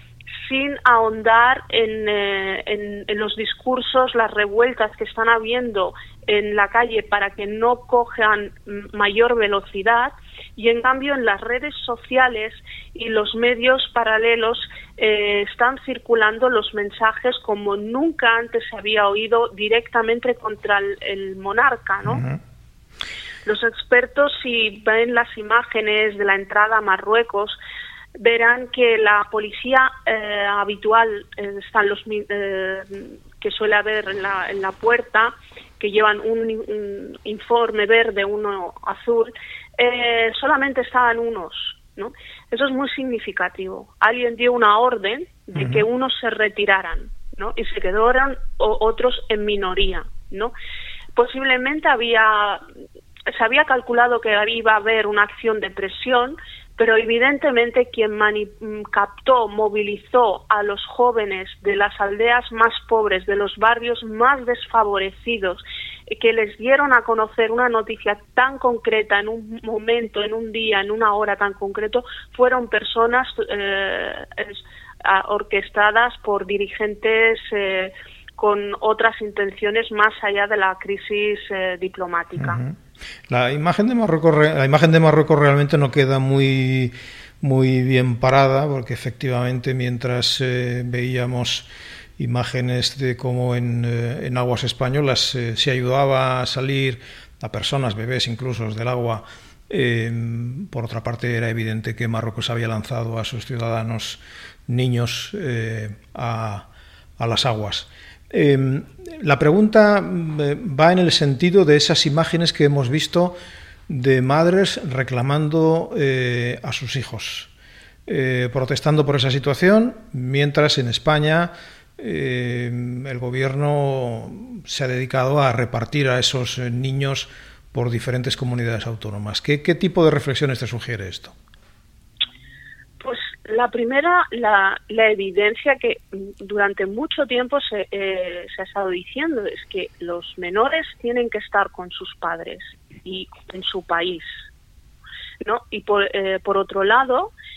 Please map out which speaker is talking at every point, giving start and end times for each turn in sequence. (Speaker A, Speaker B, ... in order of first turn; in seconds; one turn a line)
Speaker A: 0.4-22.2
Speaker B: 22.1-22.4
Speaker A: 23.4-27.6
Speaker A: 28.2-50.5
Speaker B: 45.6-45.9
Speaker A: 51.1-52.6
Speaker A: 53.3-82.6
Speaker B: 82.4-82.8
Speaker B: 83.3-106.7
Speaker B: 107.2-117.5
Speaker B: 118.1-131.3
Speaker A: 133.0-144.4
Speaker A: 145.4-147.3